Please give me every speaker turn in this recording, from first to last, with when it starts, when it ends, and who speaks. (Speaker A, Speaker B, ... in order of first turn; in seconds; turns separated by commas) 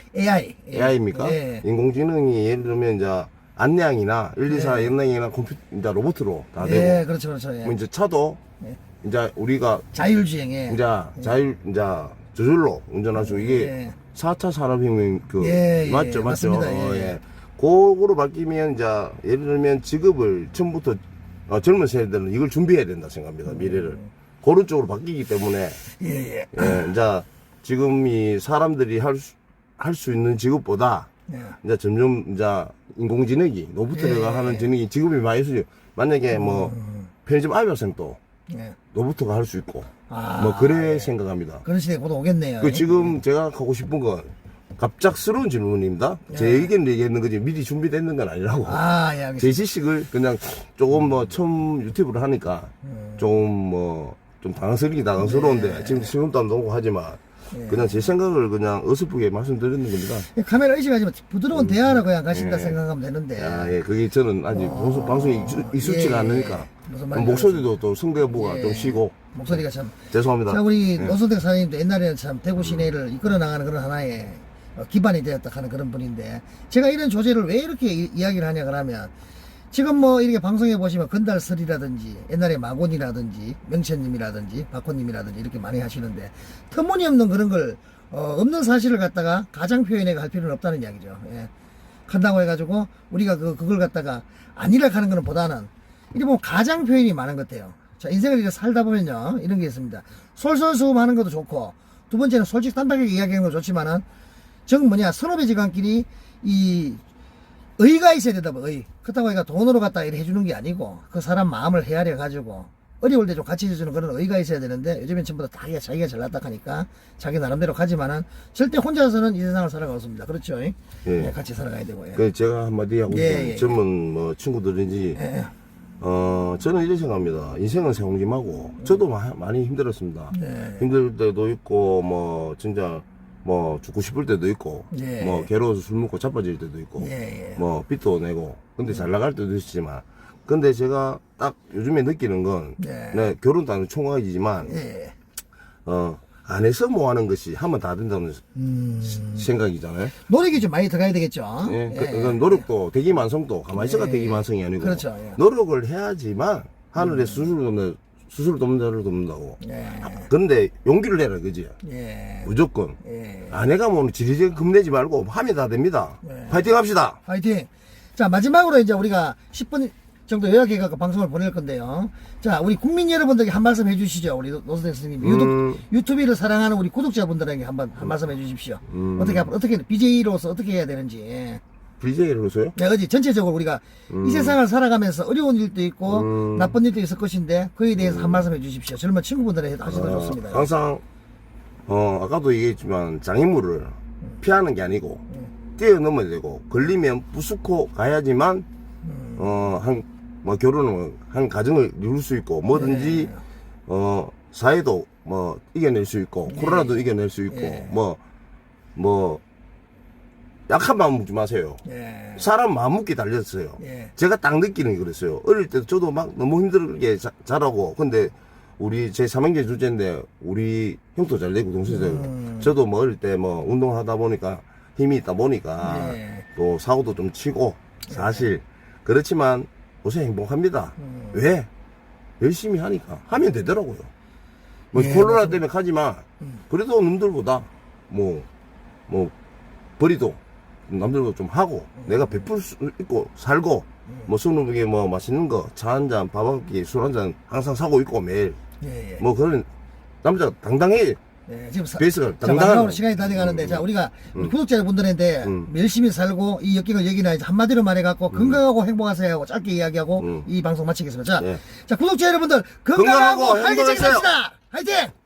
Speaker A: 0.1-1.6, Speaker B: 0.7-7.0, Speaker A: 4.5-4.9, Speaker A: 6.6-7.7, Speaker B: 7.6-8.4, Speaker B: 9.0-9.9, Speaker A: 9.9-11.3, Speaker B: 10.7-25.8, Speaker A: 13.2-14.0, Speaker A: 15.4-17.2, Speaker A: 23.5-24.1, Speaker A: 25.9-26.9, Speaker B: 26.5-31.1, Speaker A: 31.3-31.6, Speaker B: 31.6-38.2, Speaker A: 33.9-34.7, Speaker A: 36.3-37.1, Speaker A: 38.5-38.8, Speaker B: 38.9-41.6, Speaker A: 40.1-41.1, Speaker A: 41.6-43.2, Speaker B: 42.6-48.8, Speaker A: 46.3-46.7, Speaker A: 48.6-49.6, Speaker B: 49.4-60.3, Speaker A: 52.8-53.2, Speaker A: 55.2-56.1, Speaker A: 57.5-58.1, Speaker A: 60.3-63.8, Speaker B: 61.5-62.8, Speaker B: 63.4-71.2, Speaker A: 64.5-67.7, Speaker A: 68.2-79.1, Speaker B: 72.6-72.9, Speaker A: 79.7-91.5, Speaker A: 92.1-104.0, Speaker A: 104.7-107.0, Speaker A: 107.8-122.2, Speaker B: 121.0-121.3, Speaker B: 122.1-125.2, Speaker A: 123.1-123.8, Speaker A: 125.2-125.5, Speaker B: 126.0-144.8, Speaker A: 130.3-130.8, Speaker A: 134.9-135.5, Speaker A: 137.0-137.6, Speaker A: 142.8-143.3, Speaker A: 144.6-145.2, Speaker B: 145.8-148.4, Speaker A: 148.5-149.4, Speaker B: 149.2-150.2, Speaker A: 150.2-152.6, Speaker B: 151.6-161.8, Speaker A: 153.7-155.4, Speaker A: 157.0-157.5, Speaker A: 159.6-160.3, Speaker A: 161.8-162.5, Speaker B: 162.4-163.0, Speaker A: 163.0-163.6, Speaker B: 163.5-167.2, Speaker A: 166.2-166.7, Speaker A: 167.2-181.6, Speaker B: 175.2-175.8, Speaker B: 178.9-179.5, Speaker B: 182.0-182.7, Speaker A: 182.7-190.7, Speaker B: 184.1-184.6, Speaker B: 186.1-186.8, Speaker B: 187.9-188.4, Speaker B: 189.8-191.0, Speaker B: 191.8-195.2, Speaker B: 195.8-198.7, Speaker A: 199.0-199.4, Speaker B: 199.3-203.3, Speaker A: 202.7-203.4, Speaker B: 203.9-208.2, Speaker A: 206.5-207.0, Speaker A: 207.5-207.9, Speaker B: 208.9-209.4, Speaker B: 210.7-211.8, Speaker A: 211.8-212.4, Speaker B: 212.3-231.7, Speaker A: 213.8-214.1, Speaker A: 221.9-222.7, Speaker A: 225.8-226.4, Speaker A: 228.1-228.4, Speaker A: 231.0-231.3, Speaker B: 232.4-234.1, Speaker B: 234.9-238.5, Speaker A: 234.9-235.6, Speaker B: 239.1-239.3, Speaker B: 240.0-248.6, Speaker A: 242.0-242.4, Speaker A: 248.8-249.2, Speaker B: 249.2-249.7, Speaker B: 250.2-251.2, Speaker A: 251.5-265.1, Speaker B: 252.0-254.5, Speaker B: 255.4-255.7, Speaker B: 258.3-258.6, Speaker B: 260.2-260.5, Speaker B: 262.9-264.3